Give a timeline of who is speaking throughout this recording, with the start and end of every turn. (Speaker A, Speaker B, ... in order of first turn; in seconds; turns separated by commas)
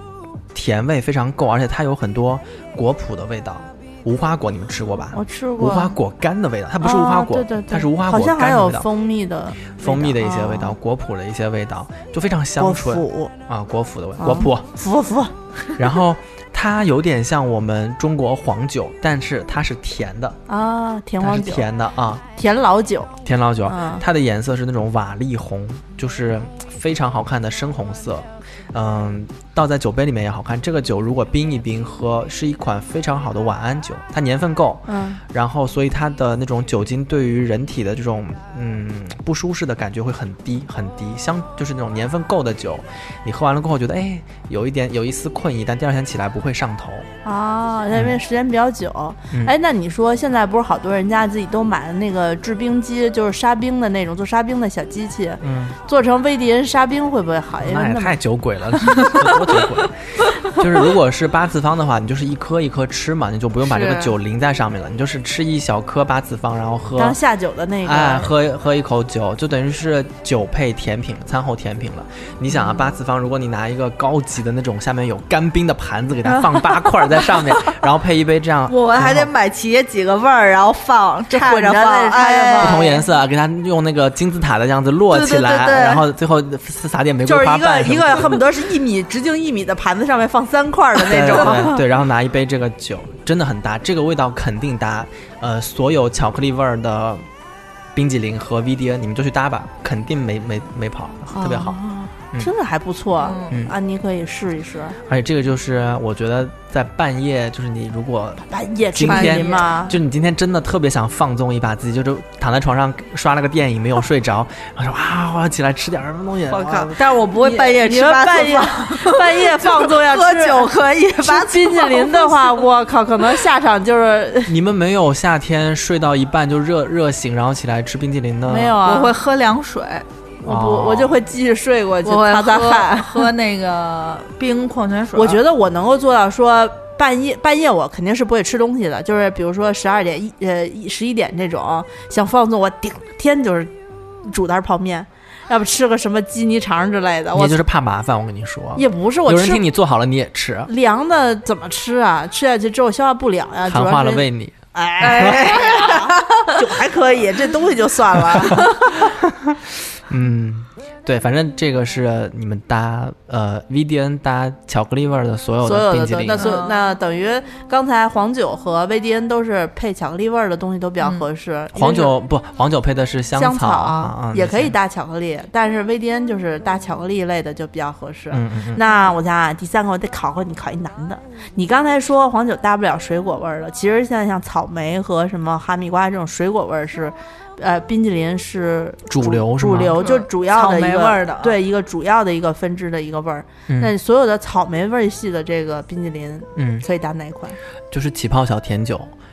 Speaker A: 0.5-8.9, Speaker B: 5.1-6.0, Speaker B: 6.8-10.8, Speaker A: 9.6-14.7, Speaker B: 12.6-13.3, Speaker B: 14.2-15.3, Speaker A: 15.8-20.4, Speaker B: 20.5-21.7, Speaker A: 21.2-22.2, Speaker B: 22.3-23.1, Speaker A: 23.2-47.1, Speaker B: 23.7-24.0, Speaker B: 34.9-35.2, Speaker B: 47.2-58.2, Speaker A: 55.4-55.8, Speaker A: 57.6-67.2, Speaker B: 59.0-59.6, Speaker C: 63.7-64.1, Speaker B: 67.0-68.3, Speaker A: 67.8-79.3, Speaker B: 72.5-72.8, Speaker C: 78.7-82.9, Speaker B: 81.3-83.0, Speaker A: 82.6-88.4, Speaker C: 85.1-86.1, Speaker B: 87.2-91.8, Speaker A: 91.0-97.2, Speaker A: 98.0-101.8, Speaker B: 101.3-105.0, Speaker C: 103.2-103.5, Speaker A: 105.1-117.0, Speaker B: 108.5-110.0, Speaker C: 109.1-109.7, Speaker B: 116.5-124.5, Speaker C: 117.0-122.6, Speaker A: 124.5-128.8, Speaker B: 128.4-129.2, Speaker C: 128.8-130.1, Speaker B: 130.4-133.3, Speaker A: 130.4-131.2, Speaker C: 132.1-135.4, Speaker B: 135.2-143.7, Speaker B: 144.2-147.6, Speaker A: 147.3-150.7, Speaker B: 148.8-149.7, Speaker B: 150.7-158.9, Speaker A: 153.7-155.5, Speaker C: 155.0-156.5, Speaker A: 158.3-158.6, Speaker A: 159.1-166.5, Speaker B: 165.6-172.1, Speaker C: 166.4-166.8, Speaker C: 171.0-171.2, Speaker A: 171.8-174.8, Speaker B: 173.3-197.6, Speaker A: 178.3-178.8, Speaker A: 189.1-190.0, Speaker C: 190.0-191.6, Speaker A: 196.6-196.8, Speaker A: 197.9-199.1